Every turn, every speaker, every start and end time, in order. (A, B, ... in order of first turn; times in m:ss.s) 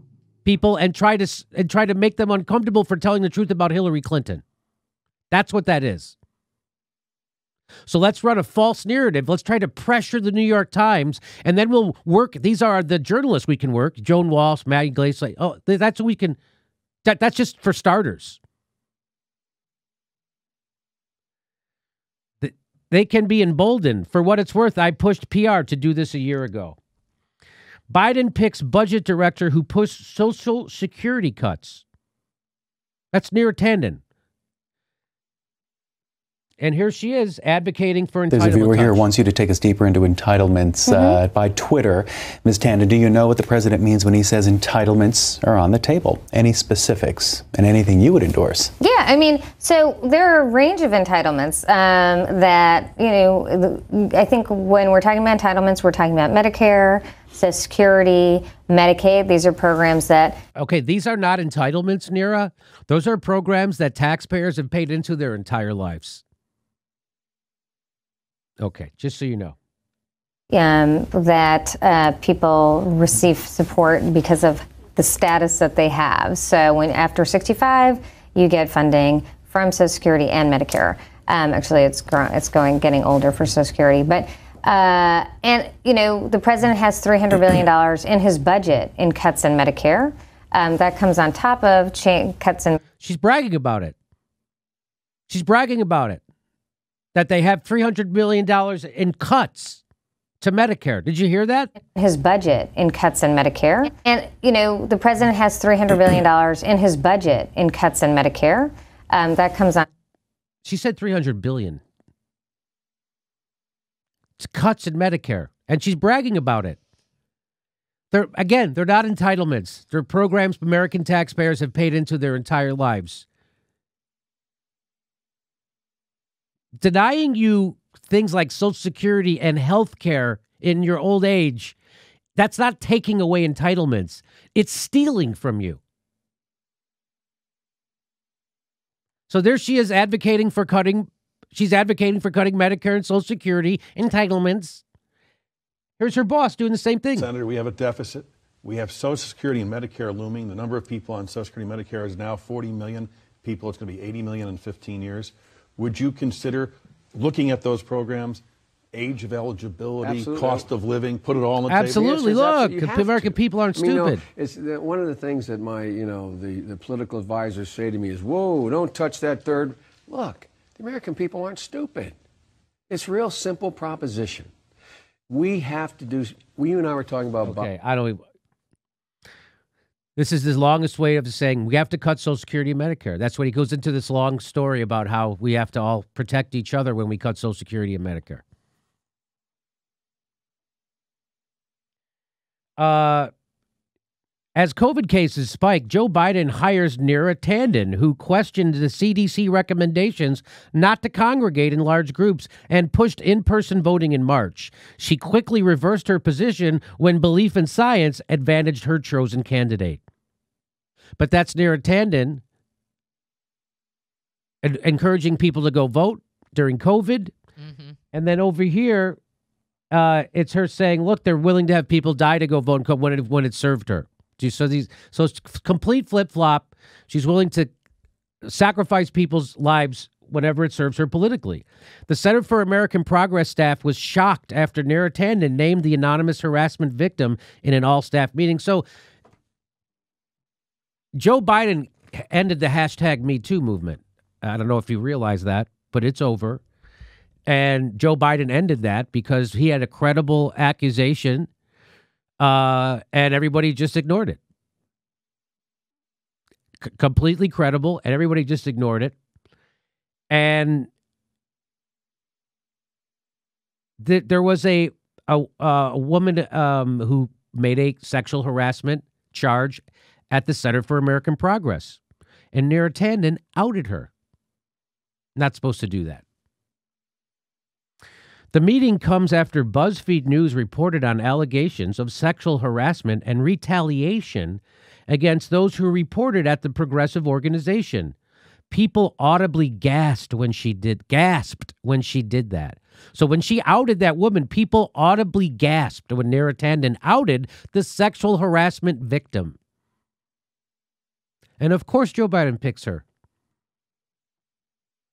0:00.4-0:04.4 A
0:05.3-0:06.1 A
0:07.9-0:16.4 A
0:17.0-0:18.4 A
0:22.4-0:26.8 A
0:27.9-0:31.8 A
0:33.1-0:34.0 A
0:36.6-0:39.1 A
0:38.3-0:48.7 B
0:40.8-0:41.2 C
0:48.8-1:00.4 C
1:00.6-1:06.2 A
1:08.6-1:09.5 A
1:10.5-1:32.8 C
1:33.0-1:33.9 A
1:35.3-1:36.2 A
1:37.1-1:39.8 A
1:40.4-1:41.7 A
1:42.0-1:49.8 C
1:50.6-1:51.8 A
1:54.4-1:56.8 A
1:58.1-2:03.2 A
2:06.8-2:11.7 A
2:12.4-2:15.8 A
2:19.3-2:24.8 A
2:26.0-2:27.3 A
2:27.2-2:38.4 D
2:38.9-2:42.4 D
2:40.0-2:40.7 E
2:41.7-2:44.2 A
2:42.0-2:52.2 E
2:52.9-2:54.5 E
2:55.3-2:57.7 E
2:57.4-2:58.2 A
3:00.2-3:08.4 A
3:12.8-3:13.3 A
3:14.6-3:30.0 A
3:31.2-3:32.4 A
3:34.6-3:37.3 A
3:38.1-3:39.2 A
3:39.9-3:47.7 A
3:48.4-3:58.8 A
4:01.2-4:06.6 A
4:07.5-4:11.5 A
4:12.4-4:14.4 A
4:16.8-4:19.1 A
4:20.3-4:20.9 A
4:24.0-4:32.0 A
4:32.5-4:34.1 A
4:35.4-4:36.2 A
4:38.5-4:48.1 A
4:48.7-4:59.6 A
5:01.6-5:03.0 A